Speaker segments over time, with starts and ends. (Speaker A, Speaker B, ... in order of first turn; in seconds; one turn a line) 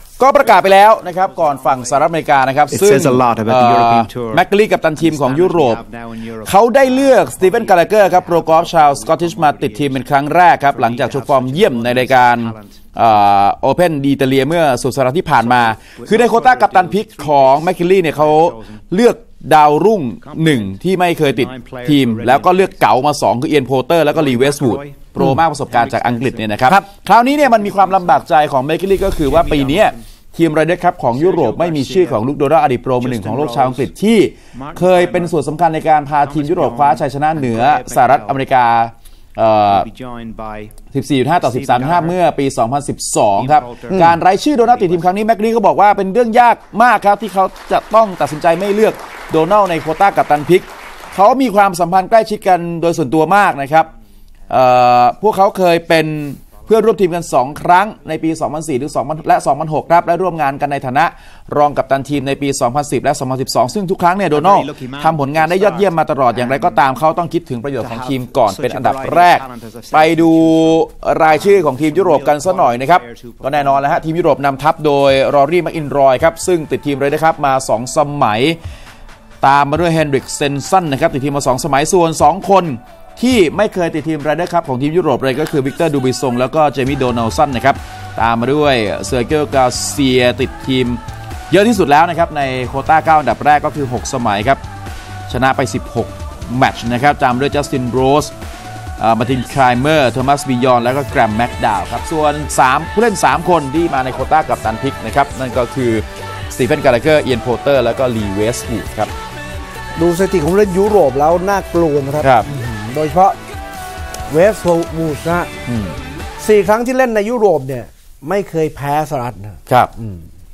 Speaker A: 0.2-5.8
Speaker B: 0.4-13.2
Speaker A: 6.4-39.9
Speaker B: 15.3-18.9
Speaker B: 20.2-22.8
Speaker B: 24.1-28.3
Speaker B: 29.1-30.0
Speaker B: 31.1-32.3
Speaker B: 33.0-34.0
Speaker B: 34.5-35.5
Speaker B: 36.2-38.5
Speaker B: 39.6-40.9
Speaker A: 40.9-53.9
Speaker B: 41.4-42.2
Speaker B: 43.4-45.1
Speaker C: 43.9-44.2
Speaker A: 54.5-78.6
Speaker B: 64.3-66.8
Speaker B: 67.8-74.1
Speaker A: 79.4-94.6
Speaker A: 95.3-98.3
Speaker A: 99.0-109.1
Speaker C: 110.0-113.4
Speaker A: 112.2-112.5
Speaker C: 114.3-115.5
Speaker A: 115.7-116.0
Speaker C: 116.4-120.2